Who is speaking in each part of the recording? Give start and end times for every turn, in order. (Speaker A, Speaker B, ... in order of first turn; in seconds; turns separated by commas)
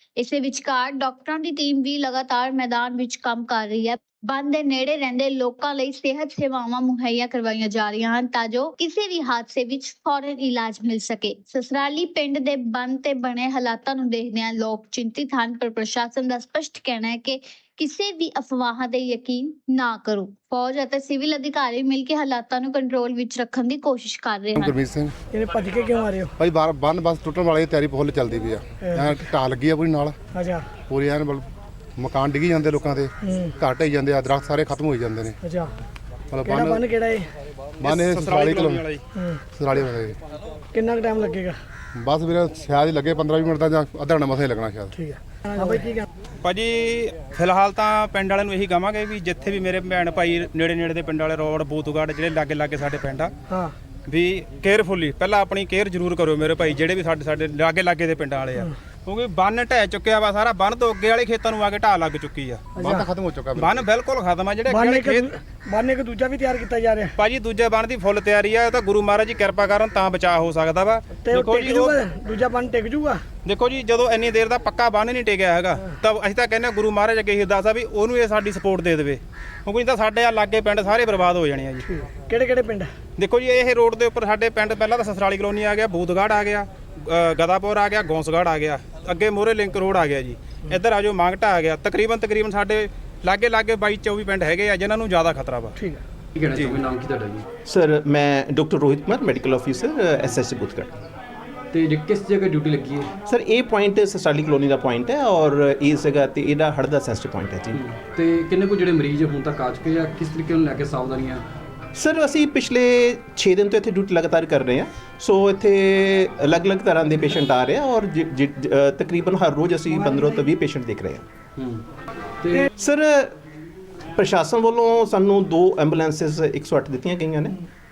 Speaker A: 0.2-24.8, Speaker B: 24.6-25.2, Speaker C: 25.3-26.3, Speaker B: 26.4-30.2, Speaker C: 30.3-30.7, Speaker B: 30.9-35.4, Speaker C: 35.4-35.7, Speaker B: 36.3-36.9, Speaker C: 36.5-37.3, Speaker B: 37.8-38.8, Speaker D: 37.8-39.0, Speaker B: 39.5-40.2, Speaker C: 40.7-41.6, Speaker B: 42.0-45.0, Speaker C: 45.0-46.0, Speaker D: 46.4-53.3, Speaker D: 54.1-62.7, Speaker C: 62.8-63.0, Speaker B: 62.8-63.7, Speaker D: 63.6-65.3, Speaker C: 64.7-67.1, Speaker D: 67.2-72.0, Speaker C: 71.3-73.2, Speaker D: 73.5-81.9, Speaker C: 81.9-82.9, Speaker D: 83.2-95.8, Speaker E: 96.3-97.5, Speaker D: 96.5-96.8, Speaker F: 97.7-101.0, Speaker E: 101.7-103.1, Speaker F: 103.3-107.8, Speaker E: 107.7-111.5, Speaker F: 112.0-121.2, Speaker E: 121.6-121.8, Speaker E: 122.4-122.7, Speaker F: 122.8-123.3, Speaker F: 124.2-127.6